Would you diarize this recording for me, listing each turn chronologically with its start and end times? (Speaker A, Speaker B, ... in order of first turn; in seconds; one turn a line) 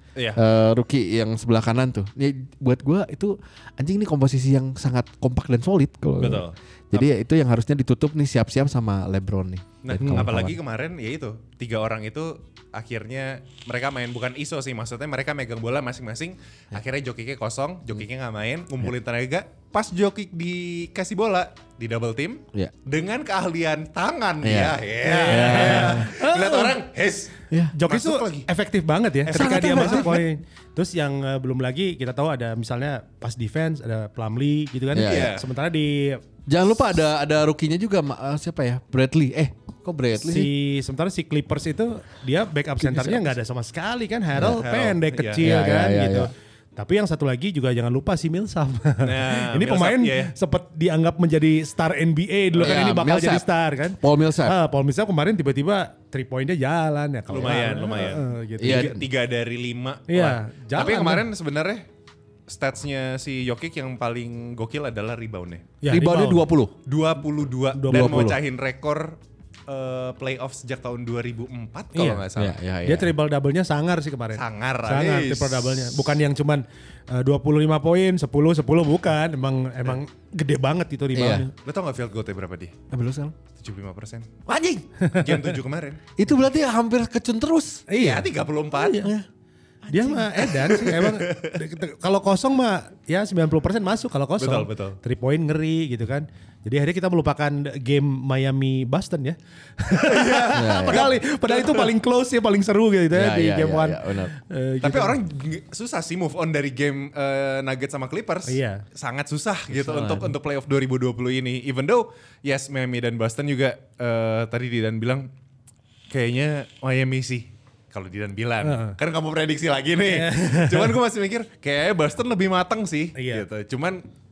Speaker A: 0.3-10.6
Speaker B: 6.2-7.0
Speaker B: 9.8-28.5
Speaker A: 24.4-26.1
Speaker C: 25.0-26.8
Speaker C: 27.7-36.2
Speaker B: 29.3-30.1
Speaker A: 29.3-30.3
Speaker A: 34.9-35.4
Speaker B: 35.0-35.5
Speaker A: 36.5-40.5
Speaker C: 40.2-59.0
Speaker A: 42.8-43.4
Speaker A: 44.3-44.6
Speaker B: 44.6-45.4
Speaker A: 45.4-46.3
Speaker B: 49.0-50.3
Speaker A: 52.6-53.4
Speaker A: 54.0-54.5
Speaker B: 57.3-61.8
Speaker A: 58.6-59.0
Speaker C: 60.1-61.2
Speaker B: 62.5-65.7
Speaker C: 65.8-66.5
Speaker A: 65.9-66.8
Speaker B: 66.8-72.6
Speaker C: 67.7-68.3
Speaker A: 67.9-68.4
Speaker C: 71.9-72.3
Speaker A: 72.3-73.1
Speaker C: 72.8-81.5
Speaker B: 74.3-76.1
Speaker A: 81.1-81.5
Speaker B: 81.6-82.7
Speaker A: 82.9-83.3
Speaker B: 83.5-84.3
Speaker A: 84.5-84.8
Speaker C: 85.0-85.5
Speaker B: 85.1-86.0
Speaker A: 86.2-87.8
Speaker C: 87.9-89.1
Speaker B: 88.0-89.1
Speaker A: 89.8-90.3
Speaker C: 89.9-105.2
Speaker B: 90.5-91.5
Speaker B: 94.4-95.0
Speaker B: 100.0-101.9
Speaker A: 100.5-101.1
Speaker A: 103.1-104.3
Speaker B: 104.8-115.3
Speaker C: 108.5-108.8
Speaker C: 109.9-110.2
Speaker B: 116.1-124.0
Speaker C: 118.6-119.0
Speaker C: 120.1-121.0
Speaker C: 123.2-123.4